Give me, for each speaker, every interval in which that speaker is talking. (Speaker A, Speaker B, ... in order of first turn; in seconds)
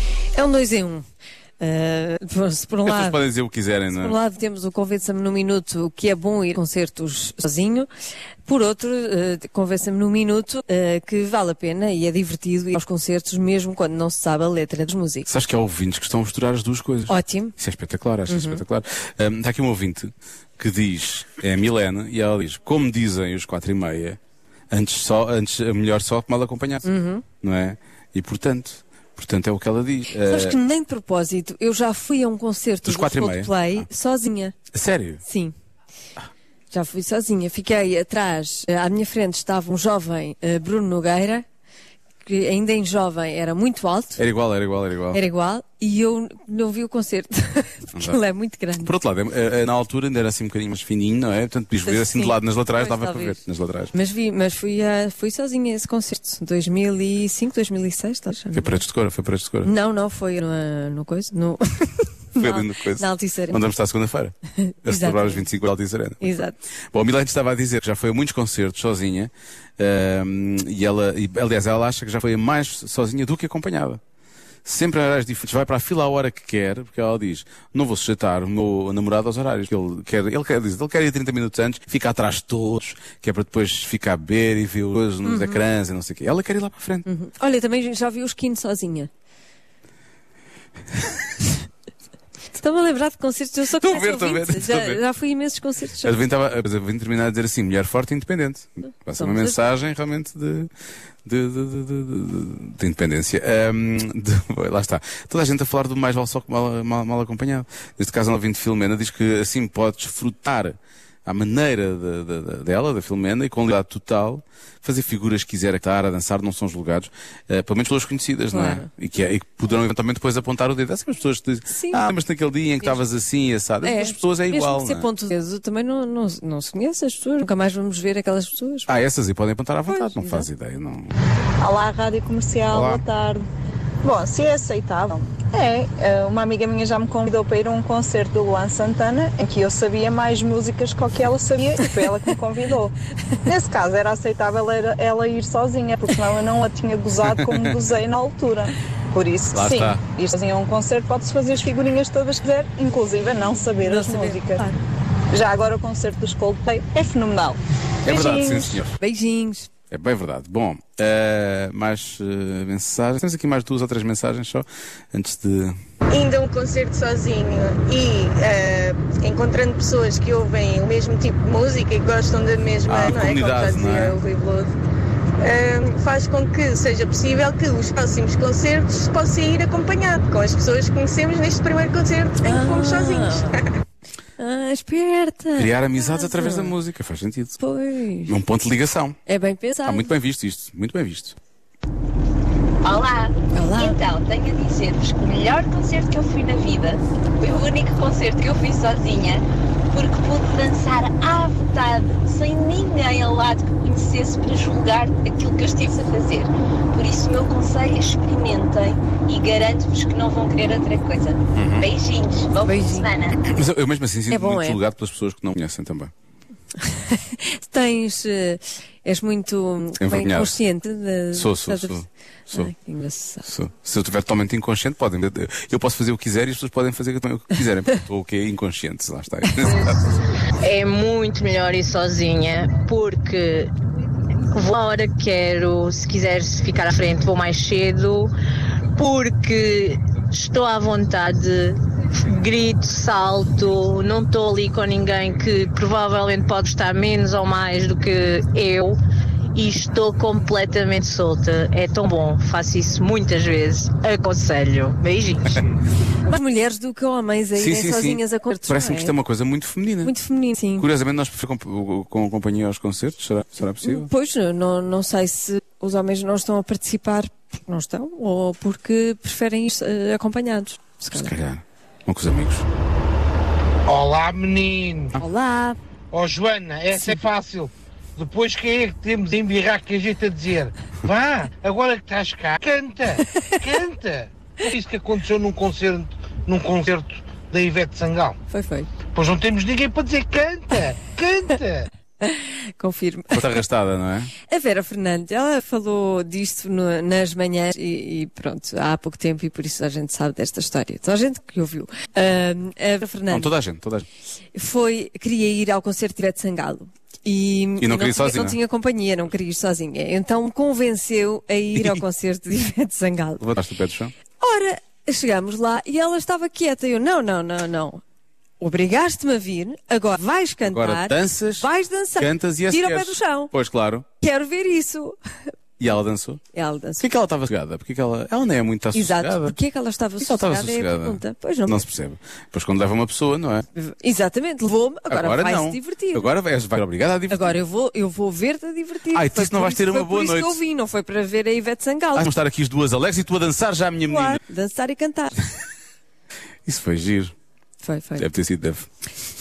Speaker A: 0.3-1.0, 1.6-3.2, 3.9-7.9, 8.4-15.3, 17.1-17.6, 18.3-18.6, 26.8-27.2, 30.1-34.5, 35.2-35.5, 36.7-41.4, 42.2-44.2, 45.1-48.9, 51.9-53.4, 53.9-58.8, 59.6-63.6, 64.6-65.5, 66.2-66.6, 85.2-85.6, 87.0-89.1, 92.5-96.1, 99.2-99.7, 118.5-118.9, 121.7-122.1, 123.8-128.9, 129.9-130.5, 153.8-154.8, 158.9-159.7, 182.4-183.6, 184.4-186.8, 187.6-188.3, 189.2-190.1, 193.5-194.0, 212.6-213.1, 214.3-214.8, 216.8-223.4, 256.2-259.1, 260.0-260.9, 263.8-271.3, 275.1-275.8, 276.9-277.2, 283.2-283.7, 288.5-288.9, 292.2-293.4, 294.5-303.5, 304.5-313.4, 314.4-318.0, 318.6-323.5, 324.2-325.5, 326.5-327.0, 328.9-331.8, 333.7-336.2, 337.3-342.3, 344.1-345.4, 347.8-348.3
Speaker B: 2.8-4.2, 15.3-24.2, 24.7-26.9, 27.4-30.6, 32.8-33.8, 34.7-35.2, 44.2-45.2, 47.9-48.2, 48.8-53.9, 58.5-59.7, 62.4-66.3, 66.9-74.0, 74.6-87.0, 93.8-95.0, 96.0-100.7, 101.2-125.1, 128.9-131.1, 132.7-133.0, 147.3-147.8, 149.5-150.0, 158.0-158.9, 159.9-165.8, 172.9-174.2, 185.6-187.6, 188.3-189.2, 189.8-191.3, 211.5-211.9, 213.5-216.1, 220.0-220.6, 221.3-222.7, 223.4-230.0, 257.5-260.1, 260.8-264.1, 271.1-272.7, 293.3-294.3, 303.3-304.1, 307.8-308.6, 313.4-314.1, 320.6-324.1, 325.8-326.4, 327.0-329.6, 330.2-333.6, 335.1-337.6, 339.1-340.6, 342.1-344.4, 346.6-347.3, 348.2-348.9
Speaker C: 131.6-133.4, 134.0-154.6, 155.3-158.8
Speaker D: 166.1-174.7, 175.4-183.7
Speaker E: 192.8-197.0, 197.6-199.4, 199.9-200.8, 201.3-201.9, 203.4-205.0, 205.6-213.3
Speaker F: 194.5-196.8, 197.4-199.3, 199.9-206.5, 207.2-209.3, 210.0-210.6, 212.1-212.5, 230.6-233.7, 234.5-238.3, 238.9-249.0, 249.5-255.6
Speaker G: 273.9-275.1, 276.1-288.4, 289.1-291.9